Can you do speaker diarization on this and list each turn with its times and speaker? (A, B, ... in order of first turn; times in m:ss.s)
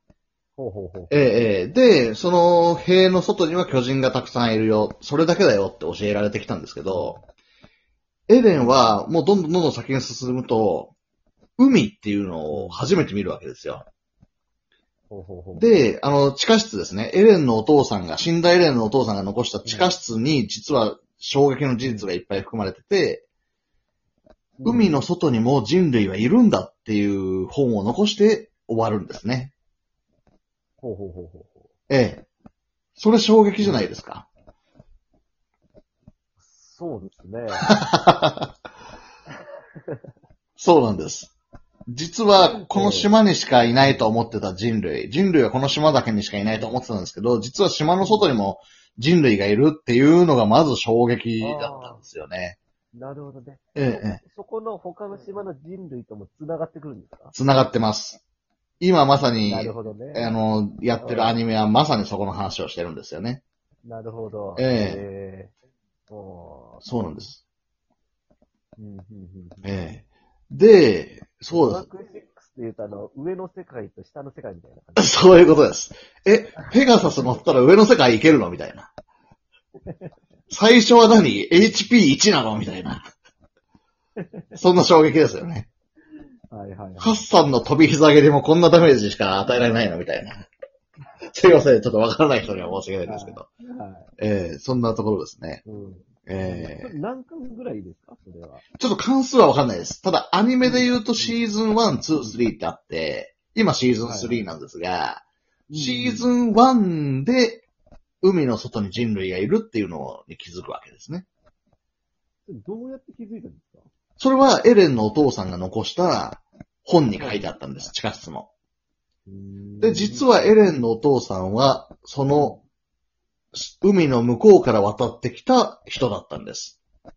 0:00.6-0:01.4 A
0:01.1-0:07.2 B
0:06.9-0:07.2 A
0:08.3-0:10.9 B
0:08.5-0:09.0 A
0:11.6-0:13.8 B
0:12.5-0:12.8 A
0:15.1-0:15.7 A
0:15.6-0:23.2 B
0:19.6-0:19.9 A
0:24.6-0:25.0 A
0:24.6-0:29.5 B
0:30.8-0:31.7 A
0:31.9-0:32.2 B
0:33.0-0:34.3 B
0:33.6-0:33.9 A
0:36.4-0:37.7 A
0:37.7-0:38.5 B
0:39.8-0:40.0 A
0:40.6-0:41.3 B
0:41.9-0:52.6 B
0:42.4-0:43.1 A
0:43.8-0:44.1 A
0:48.0-0:48.3 A
0:51.4-0:52.0 A
0:52.9-0:57.3 A
0:53.7-0:54.2 B
0:57.3-0:58.2 B
0:58.8-1:03.4 B
0:59.4-1:00.3 A
1:00.9-1:01.4 A
1:03.8-1:05.5 A
1:04.6-1:05.0 B
1:06.1-1:06.8 A
1:06.8-1:07.4 B
1:08.8-1:09.7 A
1:09.6-1:11.8 B
1:11.5-1:15.5 A
1:15.0-1:18.9 B
1:16.6-1:17.3 A
1:20.5-1:23.0 B
1:24.2-1:24.5 A
1:24.5-1:25.7 B
1:26.5-1:27.2 A
1:27.0-1:30.4 B
1:31.3-1:33.4 B
1:33.0-1:34.1 A
1:34.2-1:35.6 B
1:35.6-1:38.6 A
1:36.2-1:36.9 B
1:38.8-1:45.2 B
1:40.6-1:41.4 A
1:44.0-1:44.5 A
1:45.7-1:46.3 A
1:45.7-1:47.6 B
1:48.2-1:51.2 B
1:52.4-1:53.9 A
1:54.2-1:58.5 B
1:57.2-1:57.5 A
1:59.2-2:00.6 A
1:59.8-2:02.6 B
2:02.3-2:02.6 A
2:03.5-2:06.8 B